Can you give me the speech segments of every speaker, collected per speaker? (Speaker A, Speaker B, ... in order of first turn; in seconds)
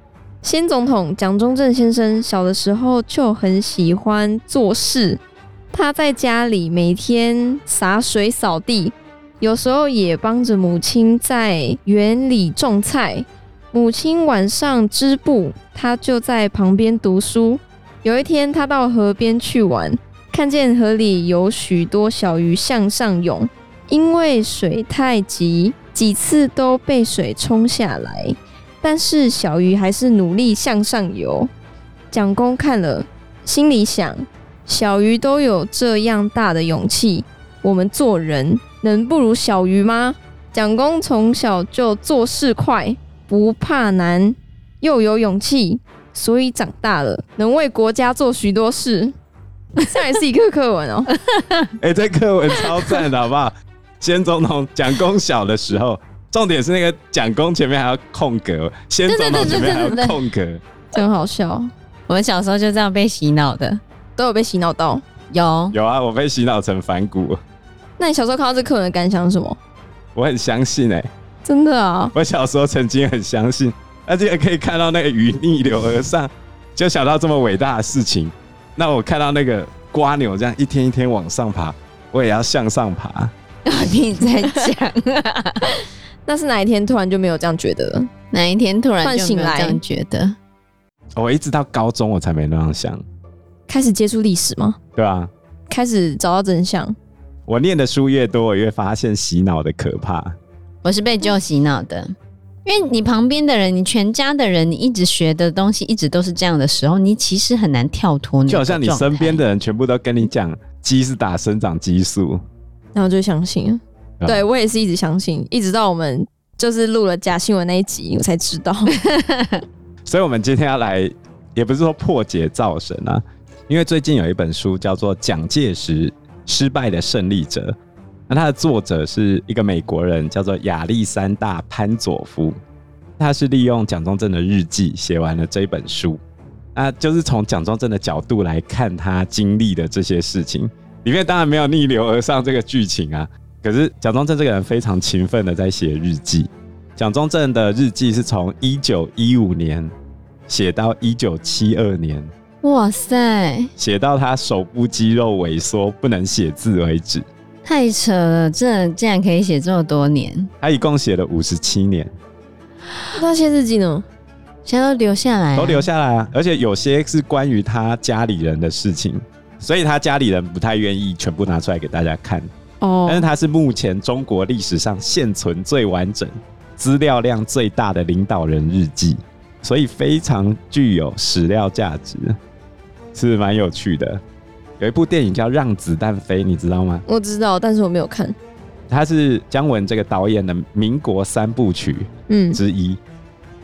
Speaker A: 0.4-5.2, 5.7-31.5, 32.1-49.1, 49.8-51.1, 60.9-61.7, 64.2-65.0, 68.0-69.6, 71.5-72.1, 86.3-88.1, 89.0-89.8, 93.7-94.8, 95.7-97.0, 113.0-119.0, 163.2-164.1, 172.8-173.3, 187.1-188.4, 192.3-192.6
Speaker B: 51.2-51.7, 52.6-53.0, 59.1-60.2, 62.1-63.8, 65.3-65.8, 83.7-85.8, 88.3-90.4, 100.8-102.1, 102.7-109.4, 118.9-119.6, 152.6-153.7, 157.7-160.5, 164.7-165.9
Speaker C: 51.8-60.6, 65.7-67.4, 70.2-71.1, 72.2-83.3, 91.2-93.0, 95.0-95.3, 97.5-100.4, 108.5-112.4, 120.1-127.8, 128.3-132.6, 133.2-136.2, 136.8-149.9, 150.5-152.3, 153.8-157.3, 160.6-162.1, 165.6-172.5, 173.1-182.4, 183.1-184.2, 184.8-187.0, 188.9-193.0